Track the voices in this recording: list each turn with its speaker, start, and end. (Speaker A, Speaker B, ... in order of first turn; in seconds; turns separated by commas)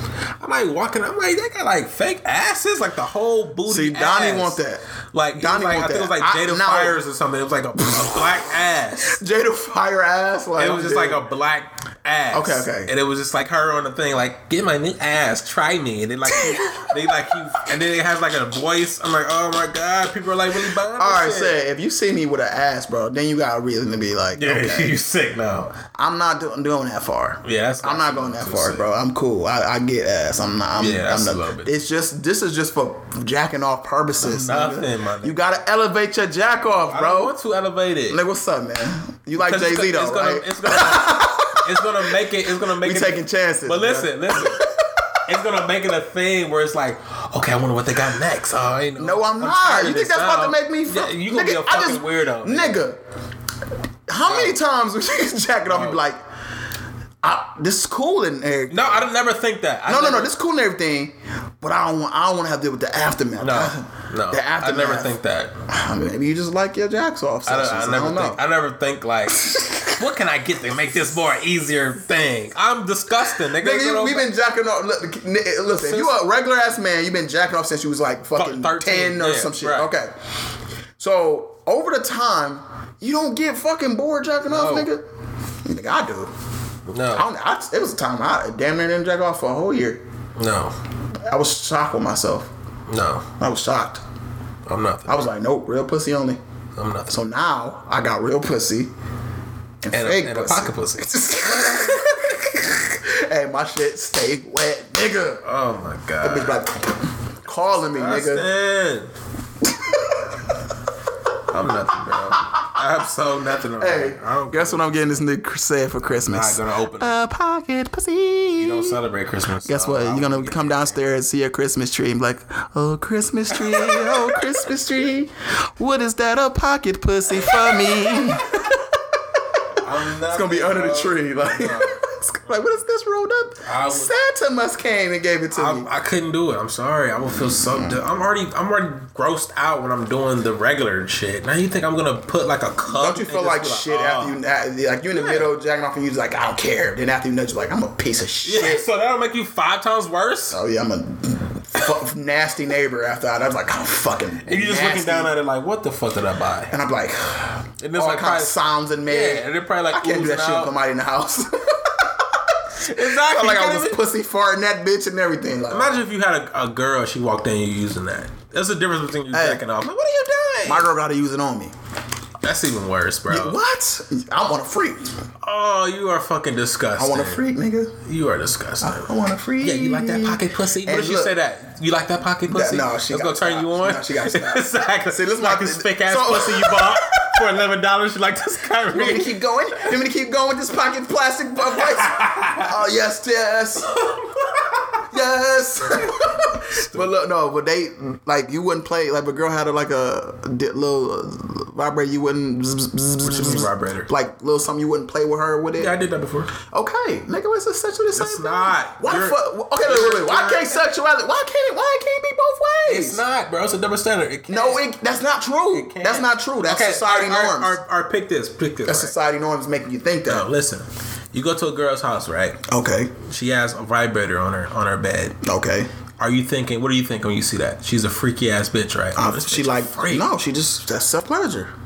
Speaker A: 0.4-4.6, Speaker B: 3.7-4.8, Speaker A: 5.1-9.2, Speaker B: 5.3-7.0, Speaker B: 7.8-8.4, Speaker B: 9.0-11.2, Speaker A: 10.6-21.6, Speaker B: 12.3-12.9, Speaker B: 16.3-17.4, Speaker B: 21.0-24.9, Speaker A: 24.4-25.7, Speaker B: 25.9-37.3, Speaker A: 27.4-28.9, Speaker A: 30.8-31.7, Speaker A: 34.2-35.5, Speaker A: 36.9-38.2, Speaker B: 38.1-45.2, Speaker A: 39.4-44.6, Speaker A: 45.3-52.9, Speaker B: 49.0-53.0, Speaker B: 54.1-56.2, Speaker A: 54.2-54.6, Speaker A: 55.7-56.0, Speaker B: 57.2-59.1, Speaker A: 58.7-60.3, Speaker B: 59.9-65.2, Speaker A: 63.4-65.6, Speaker B: 65.7-68.4, Speaker A: 67.5-74.3, Speaker B: 73.4-80.2, Speaker A: 75.7-76.1, Speaker A: 78.4-79.9, Speaker B: 81.0-85.1, Speaker A: 84.5-84.9, Speaker B: 85.7-86.3, Speaker A: 86.9-87.2, Speaker B: 87.2-90.0, Speaker A: 90.4-90.8, Speaker B: 91.2-92.5, Speaker A: 92.9-93.3, Speaker B: 93.4-94.0, Speaker A: 94.7-95.3, Speaker B: 95.1-96.4, Speaker A: 96.8-97.2, Speaker B: 97.1-98.9, Speaker B: 99.8-105.4, Speaker A: 99.9-102.0, Speaker A: 105.4-106.6, Speaker B: 106.2-108.5, Speaker A: 108.0-109.1, Speaker B: 109.6-110.5, Speaker A: 111.5-115.2, Speaker B: 113.8-119.0, Speaker A: 116.0-117.2, Speaker A: 118.6-120.9, Speaker B: 119.7-135.9, Speaker A: 123.6-124.4, Speaker A: 129.8-132.0, Speaker A: 133.6-134.1, Speaker A: 135.5-144.4, Speaker B: 137.7-138.0, Speaker B: 142.9-148.8, Speaker A: 145.1-145.5, Speaker A: 148.4-150.6, Speaker B: 150.5-155.3, Speaker A: 154.4-156.7, Speaker B: 156.7-166.0, Speaker A: 157.8-160.7, Speaker A: 162.8-164.0, Speaker A: 165.7-170.9, Speaker B: 169.3-169.6, Speaker B: 170.7-171.7, Speaker A: 172.4-173.6, Speaker B: 173.3-175.1, Speaker A: 175.4-177.4, Speaker B: 177.0-178.0, Speaker A: 178.1-179.1, Speaker B: 178.8-181.3, Speaker A: 179.6-189.4, Speaker B: 182.5-187.3, Speaker B: 188.9-193.9, Speaker A: 191.8-192.7, Speaker B: 194.9-206.0, Speaker A: 196.7-197.1, Speaker A: 203.2-204.1, Speaker A: 205.8-206.5, Speaker B: 206.6-213.2, Speaker A: 208.2-210.8, Speaker A: 212.9-214.8, Speaker B: 214.5-217.8, Speaker A: 215.7-219.1, Speaker B: 218.8-220.5, Speaker A: 220.3-222.6, Speaker B: 222.7-223.1, Speaker A: 223.2-225.4, Speaker B: 225.4-225.9, Speaker A: 226.2-230.3, Speaker B: 229.2-231.7